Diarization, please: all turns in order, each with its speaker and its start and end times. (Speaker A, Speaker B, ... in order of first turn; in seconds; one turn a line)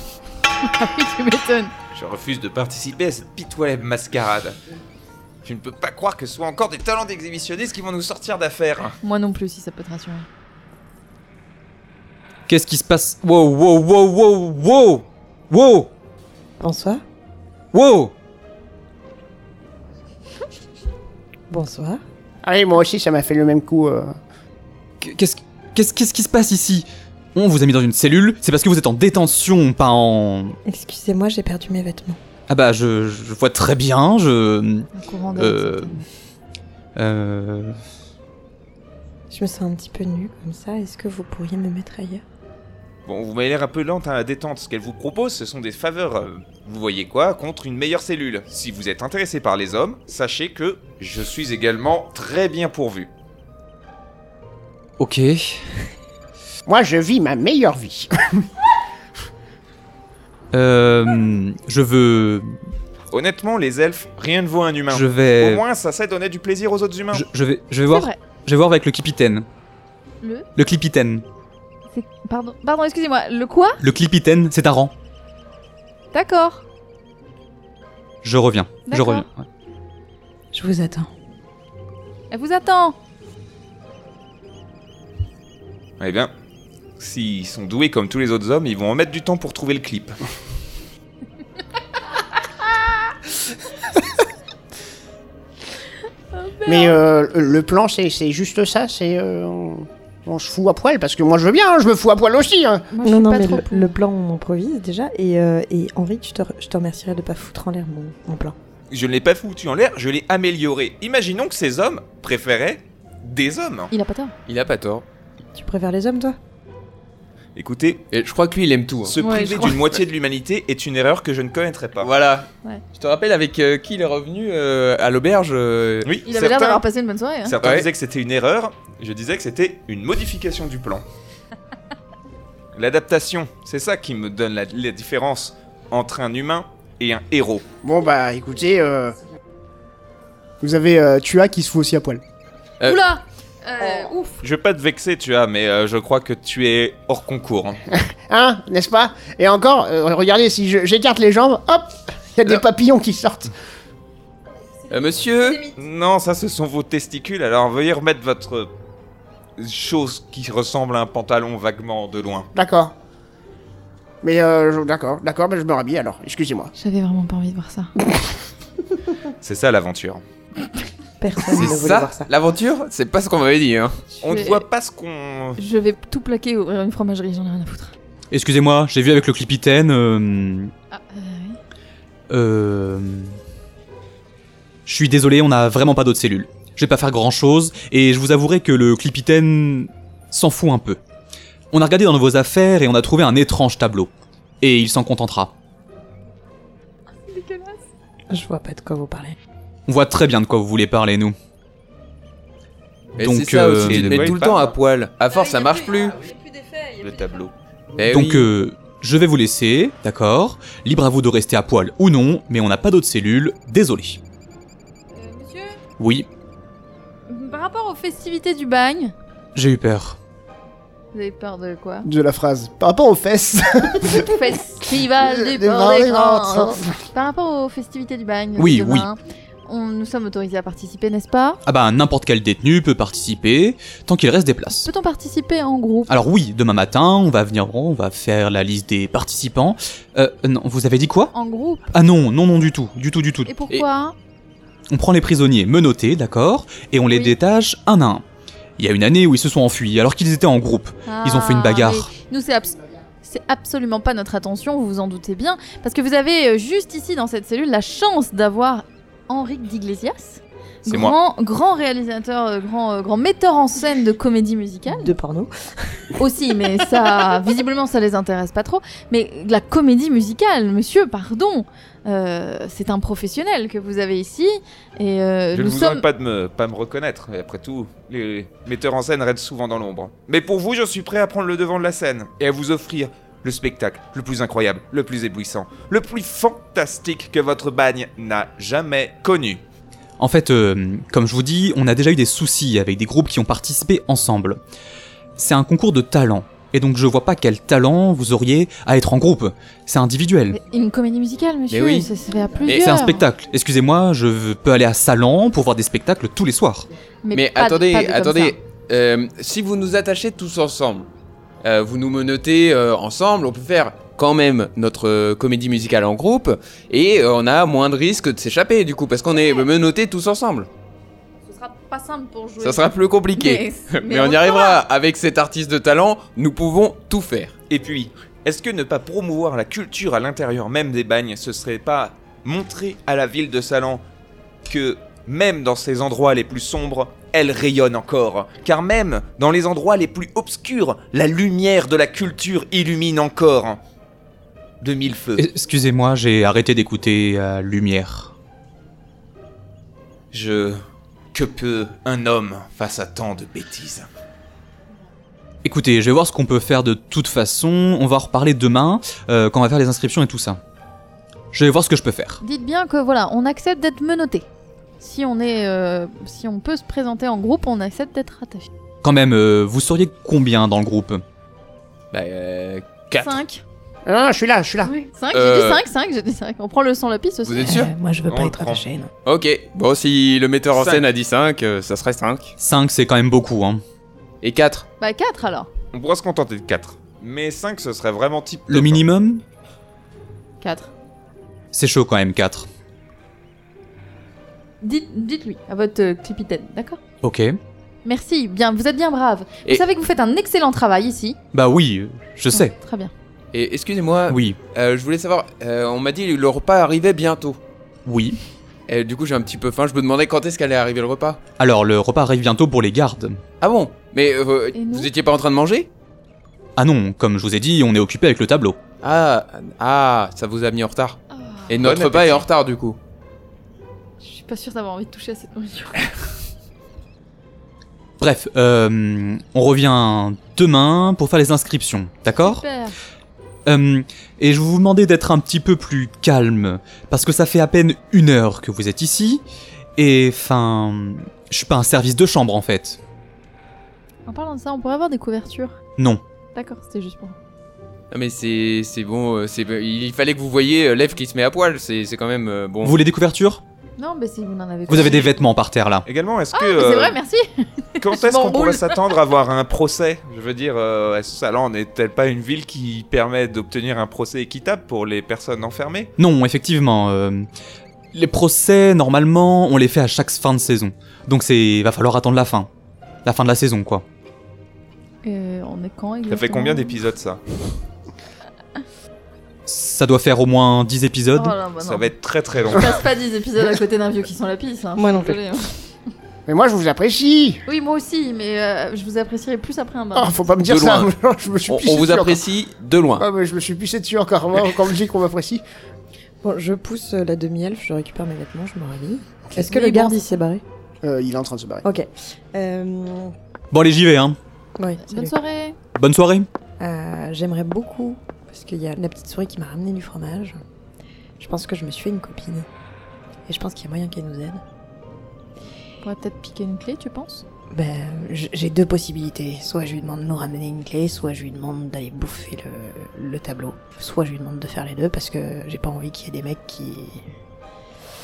Speaker A: 0.6-1.7
Speaker B: 1.9-4.6
Speaker B: 5.4-9.0
Speaker A: 9.0-10.3
Speaker C: 12.5-15.9
Speaker D: 16.6-17.0
Speaker C: 17.7-18.1
Speaker D: 21.5-22.0
Speaker E: 22.4-24.1
Speaker C: 25.0-30.6
Speaker D: 30.6-32.2
Speaker C: 32.5-36.0
Speaker A: 34.9-36.1
Speaker C: 37.0-37.8
Speaker D: 39.3-42.2
Speaker B: 43.1-53.1
Speaker C: 55.0-55.9
Speaker E: 56.7-58.5
Speaker C: 60.5-62.5
Speaker B: 63.1-67.2
Speaker C: 64.9-65.6
Speaker C: 67.1-69.5
Speaker A: 67.9-68.2
Speaker A: 70.2-70.5
Speaker C: 70.6-71.2
Speaker A: 71.9-73.8
Speaker C: 73.8-74.9
Speaker A: 76.1-76.6
Speaker C: 78.2-79.3
Speaker A: 78.9-79.3
Speaker D: 80.5-81.1
Speaker A: 82.3-83.0
Speaker B: 86.0-86.3
Speaker B: 87.0-90.2
Speaker A: 96.3-97.0
Speaker E: 96.7-102.9
Speaker A: 102.9-103.9
Speaker D: 103.0-108.5
Speaker B: 108.9-113.9
Speaker A: 113.9-114.3
Speaker F: 114.5-115.0
Speaker D: 115.5-116.4
Speaker B: 117.6-118.1
Speaker F: 118.1-119.2
Speaker B: 119.1-122.1
Speaker A: 119.2-119.8
Speaker F: 122.0-126.2
Speaker B: 126.0-126.8
Speaker A: 126.2-127.6
Speaker B: 127.5-131.1
Speaker F: 127.6-127.9
Speaker B: 132.7-137.7
Speaker E: 137.8-139.2
Speaker E: 140.6-142.2
Speaker A: 142.8-144.4
Speaker B: 144.4-147.8
Speaker E: 147.9-153.5
Speaker F: 154.9-155.7
Speaker B: 155.7-158.7
Speaker B: 159.6-162.5
Speaker E: 162.5-162.9
Speaker E: 164.2-166.7
Speaker A: 166.8-167.9
Speaker B: 169.4-170.2
Speaker D: 171.2-172.3
Speaker F: 171.5-174.0
Speaker A: 174.2-174.7
Speaker B: 174.2-175.6
Speaker A: 175.6-177.9
Speaker C: 178.3-180.7
Speaker A: 180.9-181.6
Speaker C: 182.3-183.4
Speaker C: 184.9-191.0
Speaker C: 191.7-195.5
Speaker A: 197.2-197.8
Speaker D: 198.3-199.4
Speaker C: 199.9-201.3
Speaker F: 203.2-206.2
Speaker C: 203.2-204.3
Speaker B: 203.8-204.8
Speaker A: 205.3-207.4
Speaker B: 207.0-207.5
Speaker F: 208.0-208.5
Speaker C: 208.1-214.2
Speaker A: 215.1-215.8
Speaker C: 216.0-216.3
Speaker A: 217.3-219.1
Speaker C: 219.6-220.2
Speaker A: 221.1-222.1
Speaker E: 222.1-224.3
Speaker A: 224.1-231.6
Speaker E: 225.1-226.9
Speaker C: 228.6-229.1
Speaker C: 231.7-234.9
Speaker A: 234.7-236.1
Speaker C: 236.1-241.3
Speaker A: 241.3-241.9
Speaker C: 241.9-243.5
Speaker A: 243.5-244.2
Speaker C: 244.9-248.2
Speaker A: 247.1-247.4
Speaker C: 248.8-252.1
Speaker A: 251.1-265.1
Speaker B: 260.9-261.2
Speaker D: 264.9-266.2
Speaker A: 266.2-276.1
Speaker B: 275.5-289.6
Speaker C: 290.2-294.6
Speaker C: 295.4-300.6
Speaker A: 300.5-303.3
Speaker F: 301.7-302.1
Speaker F: 302.7-303.0
Speaker C: 302.7-306.9
Speaker A: 307.2-308.6
Speaker F: 307.3-311.1
Speaker F: 311.6-320.7
Speaker A: 321.5-324.8
Speaker F: 322.6-327.5
Speaker B: 327.7-334.0
Speaker B: 334.6-343.8
Speaker B: 344.8-345.5
Speaker C: 345.4-348.4
Speaker B: 350.3-350.8
Speaker B: 351.3-354.1
Speaker C: 355.6-360.6
Speaker C: 361.5-362.4
Speaker A: 362.4-364.5
Speaker A: 365.0-368.7
Speaker C: 369.0-371.2
Speaker F: 372.1-373.4
Speaker A: 373.1-373.6
Speaker E: 374.1-374.9
Speaker A: 374.9-377.7
Speaker F: 375.3-375.8
Speaker F: 377.4-377.9
Speaker D: 377.6-379.1
Speaker B: 378.3-378.8
Speaker F: 379.2-382.5
Speaker B: 380.7-381.1
Speaker C: 382.6-383.8
Speaker F: 384.4-384.9
Speaker A: 385.0-385.7
Speaker B: 385.9-389.1
Speaker C: 388.7-389.4
Speaker A: 390.6-390.9
Speaker C: 391.7-392.7
Speaker A: 394.8-397.0
Speaker C: 397.2-397.6
Speaker A: 398.1-401.4
Speaker C: 401.5-402.7
Speaker A: 402.5-403.1
Speaker F: 403.5-407.6
Speaker C: 404.3-404.6
Speaker C: 408.1-408.4
Speaker F: 408.9-411.4
Speaker C: 411.6-413.4
Speaker F: 413.6-415.9
Speaker A: 414.7-415.1
Speaker C: 416.8-418.8
Speaker F: 419.0-423.0
Speaker A: 421.3-421.8
Speaker B: 421.8-422.5
Speaker A: 424.2-426.1
Speaker C: 428.2-432.6
Speaker A: 432.4-432.9
Speaker C: 433.7-439.4
Speaker C: 440.0-443.0
Speaker A: 444.3-445.8
Speaker A: 446.6-447.4
Speaker F: 448.1-453.0
Speaker C: 452.8-453.6
Speaker A: 454.0-455.4
Speaker C: 454.9-456.1
Speaker B: 456.1-457.2
Speaker A: 456.5-459.2
Speaker B: 458.0-466.1
Speaker C: 466.2-467.5
Speaker C: 468.1-472.7
Speaker C: 473.2-474.0
Speaker A: 475.2-477.0
Speaker B: 476.3-477.4
Speaker C: 479.7-481.6
Speaker A: 481.4-482.1
Speaker B: 481.8-483.0
Speaker A: 482.7-485.8
Speaker D: 485.0-485.4
Speaker E: 486.5-487.6
Speaker A: 487.7-490.5
Speaker E: 490.1-492.4
Speaker F: 490.6-491.1
Speaker F: 491.6-493.3
Speaker E: 493.2-495.6
Speaker D: 496.4-500.6
Speaker A: 499.6-500.3
Speaker E: 501.0-501.8
Speaker D: 501.8-503.3
Speaker C: 503.7-504.4
Speaker D: 504.8-505.3
Speaker A: 505.1-505.8
Speaker C: 506.0-506.5
Speaker D: 506.8-510.6
Speaker D: 511.4-512.7
Speaker D: 513.5-514.6
Speaker A: 516.0-517.4
Speaker D: 517.7-527.2